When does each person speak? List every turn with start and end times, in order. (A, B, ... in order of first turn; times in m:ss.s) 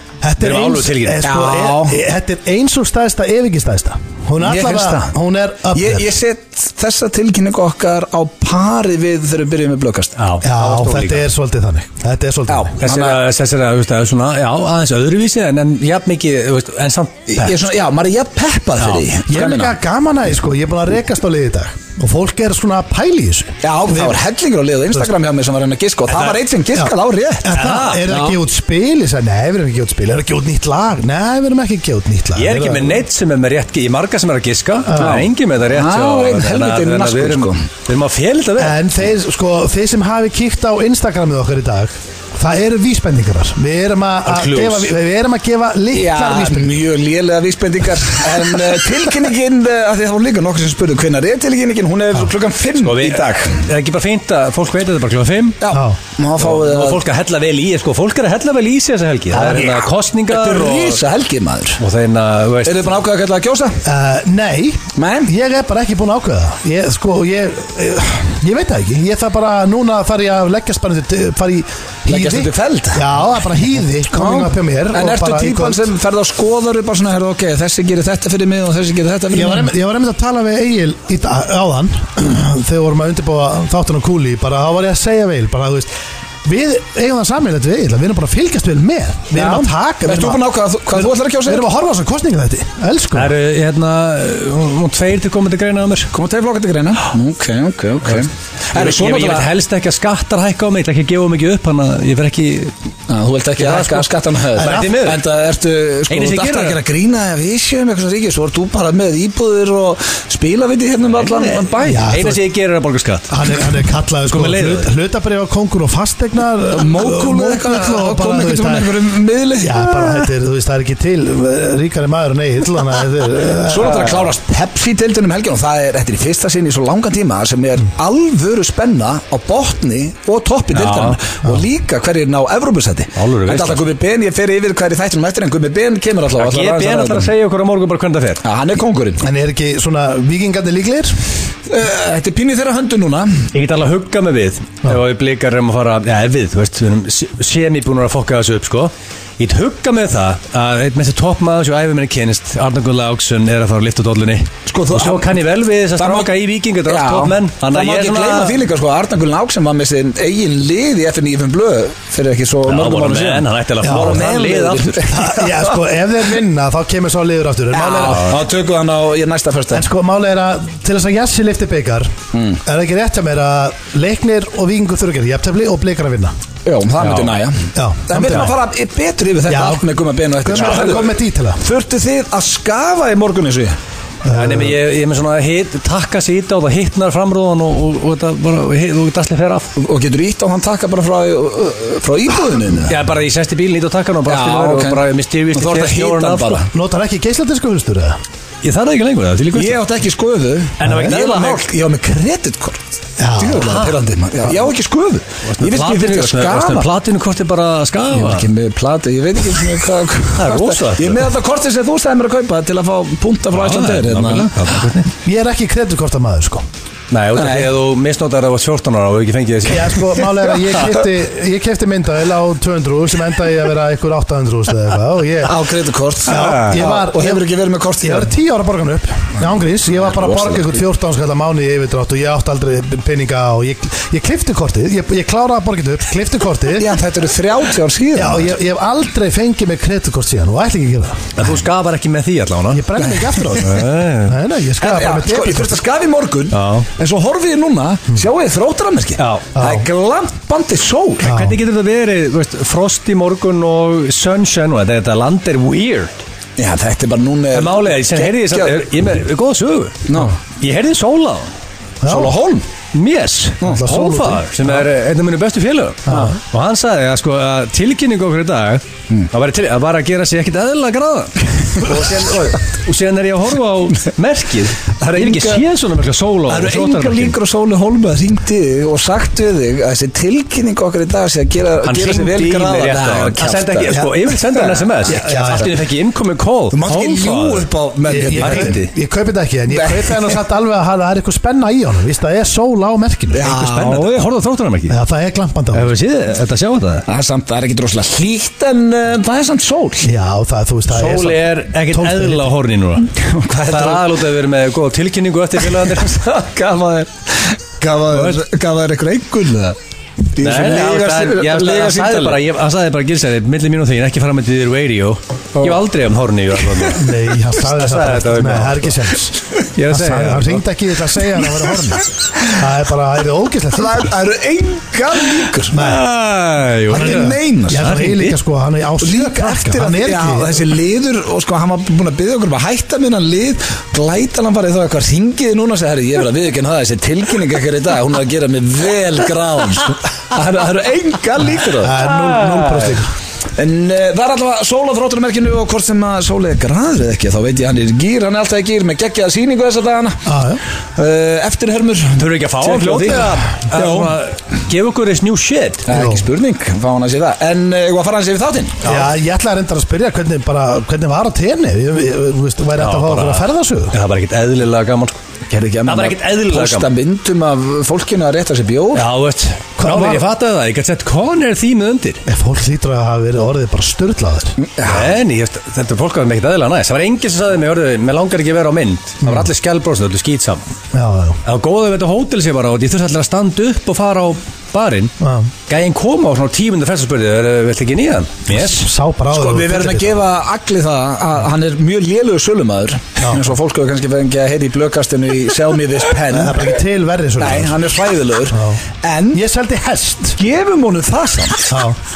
0:00.2-0:06.1 A
0:00.4-0:01.2 B
0:01.2-0:02.0 C
0:04.4-0:05.1 C
0:05.7-0:10.2 C
0:10.2-0:11.3 B
0:10.4-0:12.8 A
0:12.5-0:13.2 C
0:12.8-0:17.6 B
0:17.3-0:19.8 C
0:18.8-0:19.0 B
0:19.3-0:24.2 A
0:23.6-0:27.5 C
0:26.1-0:26.4 B
0:26.8-0:33.0 A
0:27.5-0:28.1 B
0:28.1-0:28.4 C
0:32.3-0:38.8 B
0:34.8-0:35.2 A
0:35.0-0:37.6 C
0:38.6-0:46.7 A
0:44.3-0:44.9 B
0:45.9-0:53.6 C
0:52.8-0:55.6 B
0:55.6-0:57.0 C
0:55.7-0:56.0 A
0:56.4-1:01.0 B
0:59.3-1:01.8 C
1:01.8-1:02.9 B
1:02.6-1:03.8 C
1:03.8-1:15.8 A
1:05.0-1:05.3 C
1:12.1-1:13.1 C
1:14.1-1:19.7 C
1:19.3-1:25.9 A
1:26.4-1:30.4 A
1:29.3-1:31.6 C
1:30.9-1:33.3 A
1:33.1-1:36.1 B
1:36.1-1:39.5 C
1:38.7-1:42.7 B
1:43.1-1:52.1 C
1:43.6-1:45.2 B
1:44.6-1:44.9 A
1:46.1-1:46.8 B
1:51.2-1:53.3 B
1:51.8-1:52.4 A
1:53.3-1:59.0 A
1:54.3-1:54.9 B
1:56.7-2:00.3 C
1:59.6-2:04.2 A
2:03.6-2:17.3 C
2:10.7-2:11.2 B
2:13.2-2:13.8 B
2:16.4-2:18.4 B
2:18.4-2:19.2 C
2:19.2-2:21.2 A
2:21.7-2:23.5 C
2:23.5-2:38.6 B
2:34.6-2:35.3 C
2:36.0-2:36.3 C
2:36.8-2:45.6 C
2:42.6-2:45.1 B
2:43.8-2:44.2 A
2:45.1-2:48.4 A
2:47.7-2:49.8 C
2:49.7-2:56.3 A
2:52.3-2:52.6 C
2:56.6-3:03.8 C
2:57.0-2:57.4 B
2:57.7-2:58.5 A
2:59.5-2:59.9 A
3:00.4-3:01.6 A
3:04.2-3:04.7 A
3:04.3-3:09.7 B
3:09.8-3:13.0 C
3:12.8-3:16.6 B
3:14.3-3:16.7 C
3:16.7-3:18.2 A
3:18.6-3:19.8 B
3:19.5-3:22.8 C
3:20.8-3:21.7 B
3:23.2-3:23.8 A
3:23.4-3:26.9 C
3:23.5-3:23.9 B
3:25.4-3:28.5 B
3:28.1-3:34.8 C
3:30.3-3:31.3 B
3:33.5-3:35.1 B
3:35.2-3:36.6 A
3:37.1-3:40.6 B
3:37.3-3:37.7 C
3:39.6-3:45.6 A
3:45.4-3:48.3 C
3:46.2-3:47.4 A
3:46.3-3:46.8 B
3:48.0-3:57.0 A
3:50.0-3:50.8 C
3:56.8-3:58.5 C
3:58.1-4:01.4 A
4:01.4-4:02.9 B
4:02.7-4:05.8 A
4:03.5-4:04.4 B
4:04.8-4:11.3 C
4:06.5-4:06.9 B
4:09.2-4:09.5 B
4:09.6-4:09.8 A
4:11.2-4:11.6 A
4:11.2-4:16.2 B
4:16.6-4:18.8 C
4:17.5-4:20.0 B
4:20.1-4:20.3 C
4:20.6-4:21.5 B
4:22.0-4:22.3 A
4:22.0-4:22.6 C
4:22.9-4:37.4 B
4:23.6-4:24.7 A
4:35.0-4:35.6 C
4:36.5-4:45.5 C
4:41.8-4:47.7 B
4:43.9-4:44.1 A
4:45.1-4:45.7 A
4:46.7-4:48.8 C
4:48.1-4:53.6 A
4:48.4-4:48.9 B
4:49.7-4:50.4 C
4:53.3-4:54.3 C
4:53.6-4:55.0 B
4:54.9-4:55.9 A
4:55.7-4:57.1 B
4:57.1-5:00.1 C
5:00.0-5:02.5 A
5:00.9-5:03.1 B
5:03.2-5:04.2 C
5:03.7-5:06.5 B
5:05.6-5:09.8 C
5:08.1-5:08.4 B
5:10.3-5:12.4 C
5:10.4-5:19.0 B
5:16.9-5:19.3 A
5:19.7-5:20.6 B
5:19.9-5:24.1 A
5:23.7-5:25.9 C
5:25.7-5:26.0 A
5:25.7-5:28.4 B
5:26.9-5:27.9 C
5:26.9-5:30.7 A
5:29.0-5:42.0 C
5:41.7-5:43.1 A
5:42.2-5:42.8 B
5:43.6-5:50.3 C
5:50.2-5:50.6 A
5:51.0-5:54.1 C
5:52.2-5:55.9 B
5:55.9-5:58.9 C
5:55.9-5:56.2 A
5:58.8-6:03.9 A
6:02.8-6:05.2 B
6:05.5-6:09.0 C
6:05.8-6:06.9 B
6:08.9-6:12.2 B
6:09.8-6:10.2 A
6:12.2-6:14.6 A
6:14.6-6:15.1 C
6:14.8-6:20.7 B
6:19.2-6:19.5 A
6:20.9-6:21.4 A
6:21.4-6:25.1 B
6:25.2-6:25.5 A
6:25.7-6:28.8 B
6:28.5-6:30.2 A
6:29.3-6:36.7 C
6:36.3-6:37.8 A
6:37.4-6:39.4 C
6:38.5-6:38.8 A
6:39.3-6:40.4 A
6:40.4-6:41.8 C
6:41.7-6:42.0 A